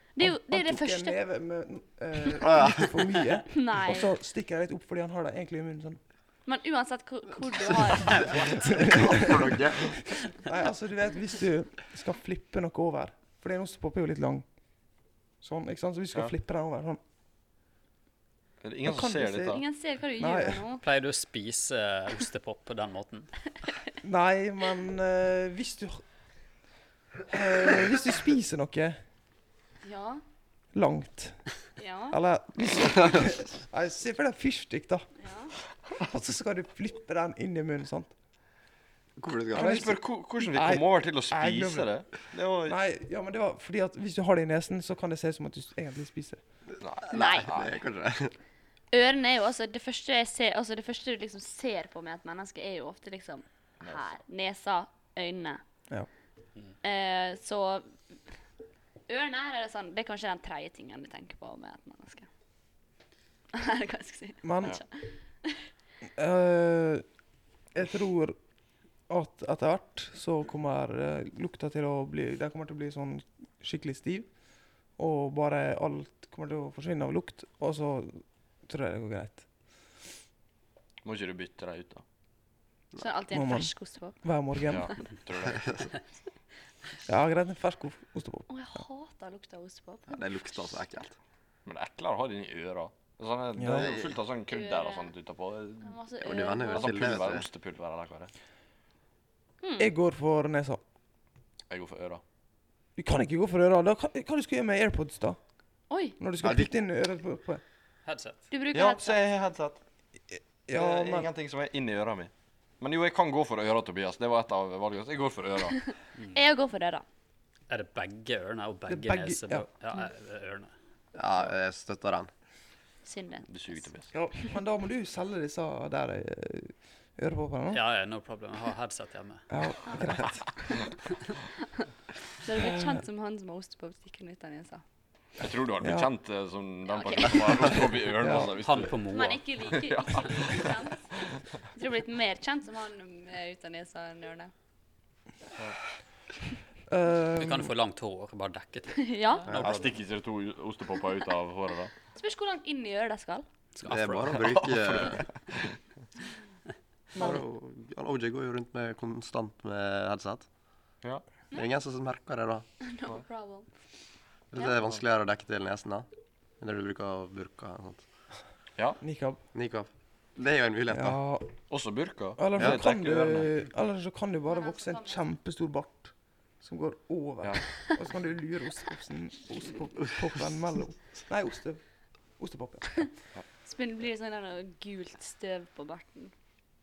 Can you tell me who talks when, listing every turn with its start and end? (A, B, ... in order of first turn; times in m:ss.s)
0:00.2-0:01.2 A
0:00.2-0:06.0 B
0:03.5-0:04.1 A
0:06.5-0:09.1 A
0:08.6-0:09.6 B
0:08.8-0:10.0 C
0:10.4-0:14.5 B
0:15.4-0:17.0 B
0:18.6-0:19.6 D
0:18.8-0:19.6 B
0:19.4-0:20.8 A
0:20.2-0:20.6 B
0:20.8-0:23.3 E
0:24.0-0:26.0 B
0:27.3-0:29.0 B
0:29.8-0:30.2 A
0:30.7-0:35.1 B
0:31.8-0:32.2 A
0:35.2-0:35.5 A
0:36.0-0:38.1 B
0:39.2-0:39.9 C
0:39.5-0:42.8 D
0:39.5-0:41.9 B
0:42.7-0:46.4 B
0:46.8-0:47.7 D
0:47.1-0:48.3 C
0:47.1-0:47.5 A
0:48.9-0:55.6 A
0:56.8-0:58.0 A
0:59.1-1:02.3 A
1:03.5-1:05.6 A
1:04.4-1:04.8 B
1:06.2-1:07.0 B
1:07.7-1:08.4 B
1:09.1-1:14.3 B
1:15.0-1:19.4 B
1:21.0-1:22.0 D
1:23.0-1:24.2 A
1:23.3-1:24.9 B
1:24.7-1:25.9 D
1:24.7-1:25.0 A
1:27.1-1:28.5 B
1:28.5-1:30.8 A
1:30.1-1:31.2 C
1:31.7-1:36.0 D
1:33.6-1:33.9 B
1:33.8-1:34.1 C
1:34.5-1:35.1 A
1:35.8-1:37.0 A
1:36.2-1:37.4 C
1:36.7-1:38.3 D
1:39.6-1:39.9 A
1:39.8-1:40.8 B
1:41.7-1:42.2 D
1:43.0-1:45.4 B
1:45.9-1:46.2 A
1:46.2-1:47.6 B
1:48.1-1:48.4 E
1:48.5-1:49.2 A
1:48.7-1:49.8 D
1:50.7-1:51.3 B
1:50.7-1:55.9 D
1:56.3-1:57.0 A
1:57.7-2:00.7 E
1:58.9-1:59.7 B
2:01.2-2:02.3 C
2:03.0-2:03.9 A
2:03.5-2:04.1 D
2:04.1-2:07.8 B
2:07.7-2:09.5 E
2:09.5-2:10.5 B
2:12.4-2:14.8 A
2:15.4-2:19.0 D
2:15.8-2:16.1 B
2:16.9-2:17.8 A
2:18.2-2:18.5 B
2:18.6-2:19.4 E
2:19.1-2:24.5 A
2:19.7-2:20.8 D
2:26.9-2:27.7 B
2:27.4-2:29.8 E
2:29.0-2:29.6 A
2:29.5-2:31.9 D
2:32.1-2:33.4 A
2:33.8-2:34.4 E
2:33.8-2:35.3 C
2:34.3-2:35.2 D
2:37.1-2:40.5 C
2:41.5-2:42.7 C
2:42.8-2:43.7 A
2:44.5-2:46.1 C
2:46.6-2:48.0 C
2:49.0-2:49.4 B
2:49.5-2:51.2 C
2:50.9-2:51.6 B
2:51.7-2:53.5 D
2:52.4-3:01.8 B
2:54.5-2:55.2 A
3:02.4-3:03.1 B
3:03.7-3:06.3 A